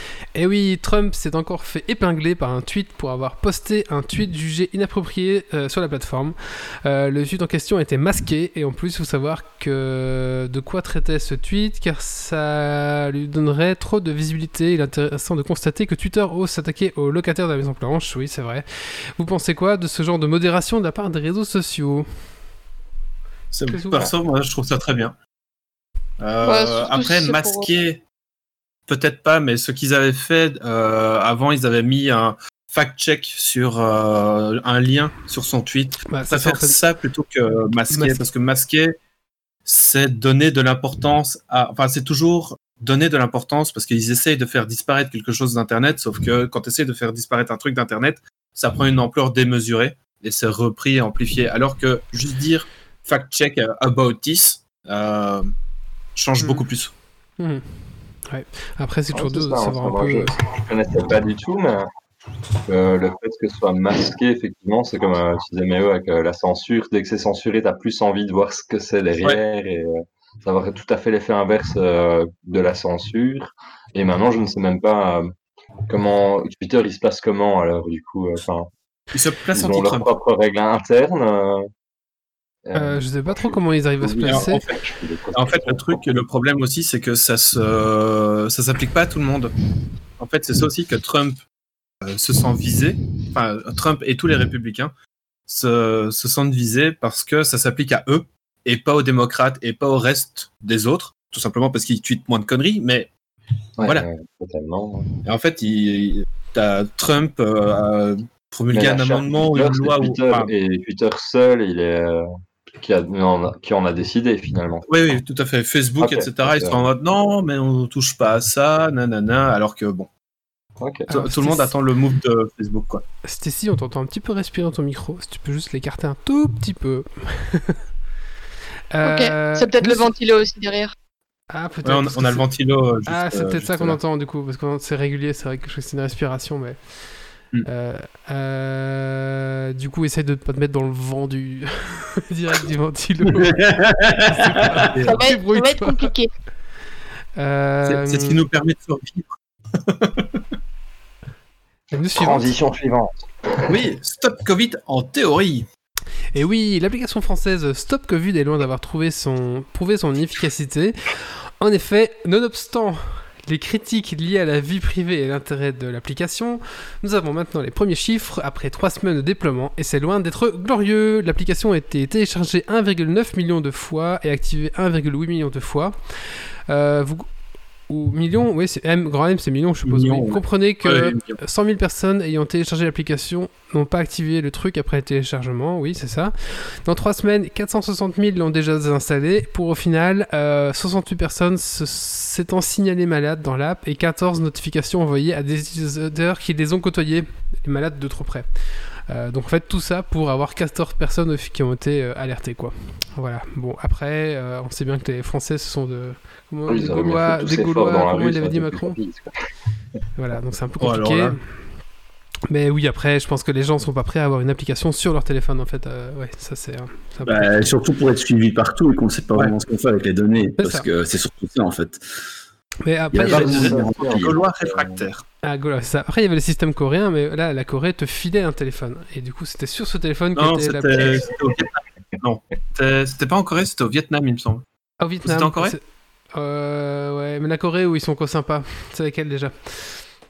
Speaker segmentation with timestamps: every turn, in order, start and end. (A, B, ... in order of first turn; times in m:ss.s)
0:00.3-0:18.6 A
0:19.2-0:22.1 A
0:23.5-0:25.1 B
0:23.7-0:24.1 A
0:26.2-0:28.0 B
0:26.4-0:27.6 C
0:28.9-0:38.9 B
0:36.1-0:36.8 A
0:37.9-0:38.2 A
0:39.6-0:55.5 B
0:56.2-0:56.9 B
0:56.4-0:56.6 A
0:57.4-1:00.3 A
0:59.1-1:01.9 D
1:02.6-1:15.3 D
1:15.9-1:18.7 D
1:19.1-1:20.1 B
1:19.5-1:21.6 D
1:22.6-1:26.0 D
1:22.7-1:24.6 A
1:24.2-1:24.8 B
1:25.3-1:29.5 B
1:30.2-1:31.4 B
1:32.0-1:34.9 B
1:35.5-1:43.1 B
1:43.8-1:45.2 D
1:43.8-1:44.1 B
1:45.2-1:50.5 B
1:48.7-1:52.2 D
1:52.8-1:55.2 D
1:54.9-2:00.1 B
1:56.0-1:56.8 D
2:00.8-2:01.1 D
2:01.1-2:01.7 A
2:01.1-2:03.0 B
2:03.2-2:07.8 A
2:08.9-2:10.1 A
2:09.0-2:10.9 C
2:11.5-2:12.5 A
2:11.8-2:14.0 B
2:13.0-2:16.8 A
2:17.6-2:23.7 A
2:23.6-2:24.4 E
2:24.2-2:26.1 A
2:24.8-2:25.2 B
2:25.0-2:26.3 C
2:27.4-2:28.4 A
2:27.8-2:30.4 B
2:31.9-2:32.5 A
2:32.2-2:33.8 D
2:33.7-2:35.6 B
2:36.3-2:57.3 A
2:57.9-3:18.5 A
2:59.8-3:01.4 B
3:19.1-3:29.0 A
3:26.7-3:29.3 D
3:30.2-3:31.6 A
3:30.8-3:31.4 B
3:32.5-3:37.7 A
3:37.2-3:42.0 E
3:40.6-3:40.9 A
3:42.8-3:43.7 A
3:43.1-3:45.0 D
3:43.2-3:45.2 B
3:43.2-3:44.0 E
3:45.4-3:51.2 A
3:50.3-3:54.6 B
3:55.0-3:55.8 A
3:55.2-3:55.8 B
3:56.3-4:00.0 A